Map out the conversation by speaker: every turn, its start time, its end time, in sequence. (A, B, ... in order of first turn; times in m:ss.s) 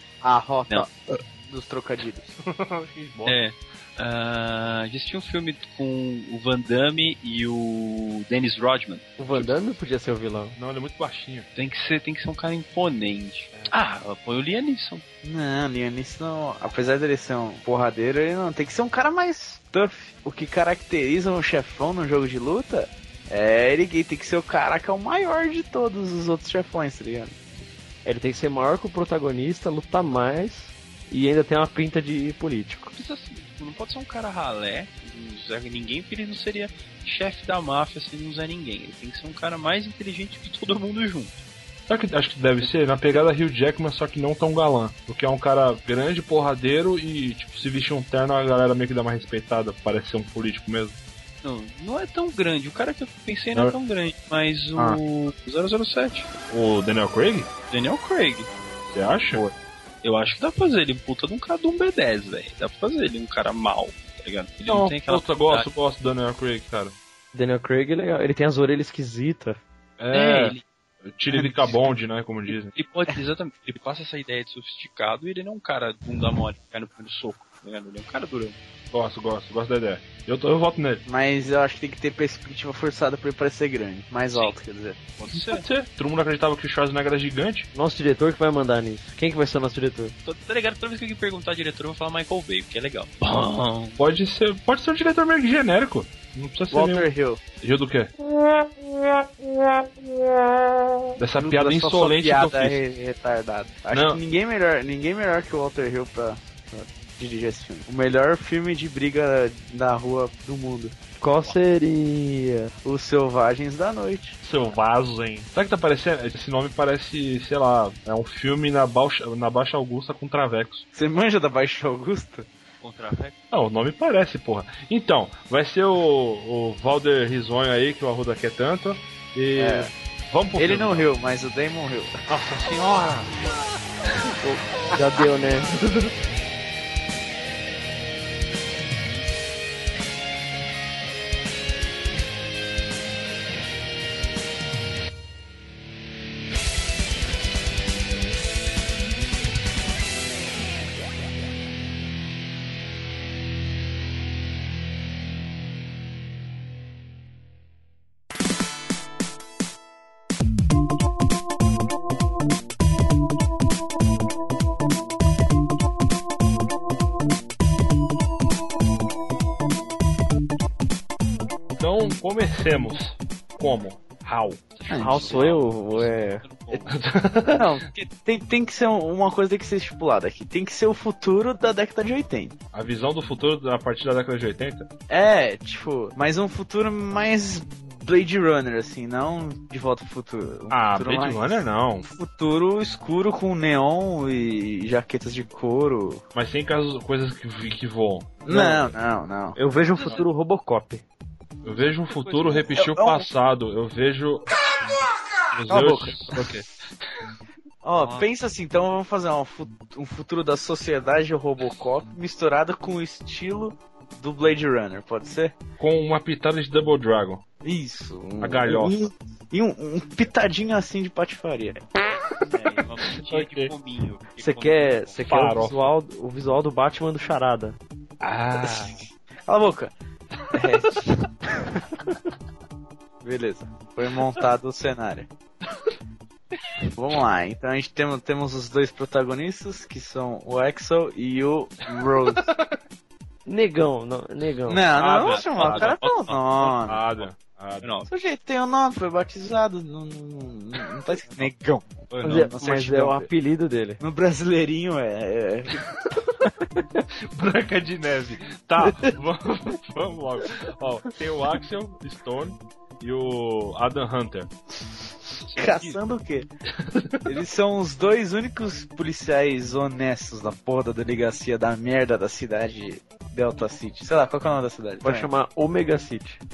0:00.2-0:00.9 A
0:01.4-0:02.2 A
0:02.4-0:03.4 B
0:03.2-0:09.1 C
0:09.2-0:10.6 D
0:09.3-0:09.6 B
0:10.6-0:11.5 B
0:11.5-0:15.0 C
0:15.2-0:27.4 A
0:28.0-0:32.9 D
0:32.9-0:41.4 C
0:41.9-0:51.0 B
0:51.4-0:56.3 C
0:56.5-0:57.5 B
0:57.7-0:58.5 C
0:58.9-0:59.5 B
1:00.0-1:05.7 C
1:04.6-1:07.0 B
1:07.3-1:09.6 D
1:10.0-1:12.7 B
1:10.1-1:10.6 C
1:11.3-1:11.8 A
1:12.7-1:18.6 C
1:18.9-1:21.0 B
1:21.0-1:25.0 A
1:24.3-1:24.6 C
1:25.2-1:25.6 C
1:25.3-1:27.7 B
1:27.7-1:30.1 D
1:30.2-1:34.0 C
1:34.0-1:37.1 B
1:36.7-1:37.4 A
1:37.6-1:38.1 B
1:41.2-1:42.8 B
1:41.4-1:50.9 A
1:43.9-1:44.2 B
1:51.2-1:52.7 D
1:52.8-1:54.4 A
1:54.4-2:00.8 B
2:00.9-2:02.5 A
2:02.8-2:03.3 C
2:03.5-2:11.1 B
2:09.6-2:09.9 A
2:10.6-2:12.1 A
2:12.3-2:13.3 B
2:14.4-2:15.7 D
2:51.8-2:54.6 B
2:54.7-2:57.0 C
2:54.9-2:56.8 A
2:54.9-2:55.7 D
2:56.9-2:57.7 B
2:57.5-3:02.5 A
3:02.7-3:04.9 B
3:05.1-3:16.2 A
3:10.7-3:12.1 B
3:16.3-3:18.4 B
3:18.4-3:19.6 A
3:18.5-3:18.9 D
3:19.5-3:21.0 D
3:21.6-3:24.5 B
3:22.1-3:22.8 C
3:22.8-3:23.3 A
3:25.5-3:26.6 B
3:25.7-3:26.2 A
3:27.8-3:35.5 A
3:28.0-3:28.2 C
3:35.8-3:37.4 B
3:37.6-3:41.8 A
3:38.4-3:39.1 B
3:42.5-3:45.2 C
3:43.2-3:43.7 B
3:44.4-3:47.8 D
3:45.2-3:45.9 B
3:48.2-3:49.0 B
3:49.5-3:49.9 A
3:50.5-3:51.1 A
3:53.2-3:55.3 A
3:56.9-4:02.5 A
4:02.4-4:02.8 B
4:03.4-4:04.8 D
4:04.7-4:07.0 A
4:05.0-4:05.9 B
4:05.0-4:06.4 C
4:06.6-4:08.1 B
4:07.8-4:08.1 C
4:08.1-4:13.3 A
4:12.2-4:14.0 D
4:14.0-4:15.8 A
4:17.3-4:24.5 B
4:25.5-4:25.9 B
4:25.6-4:26.5 A
4:26.8-4:27.3 B
4:27.2-4:35.3 A
4:35.0-4:36.4 D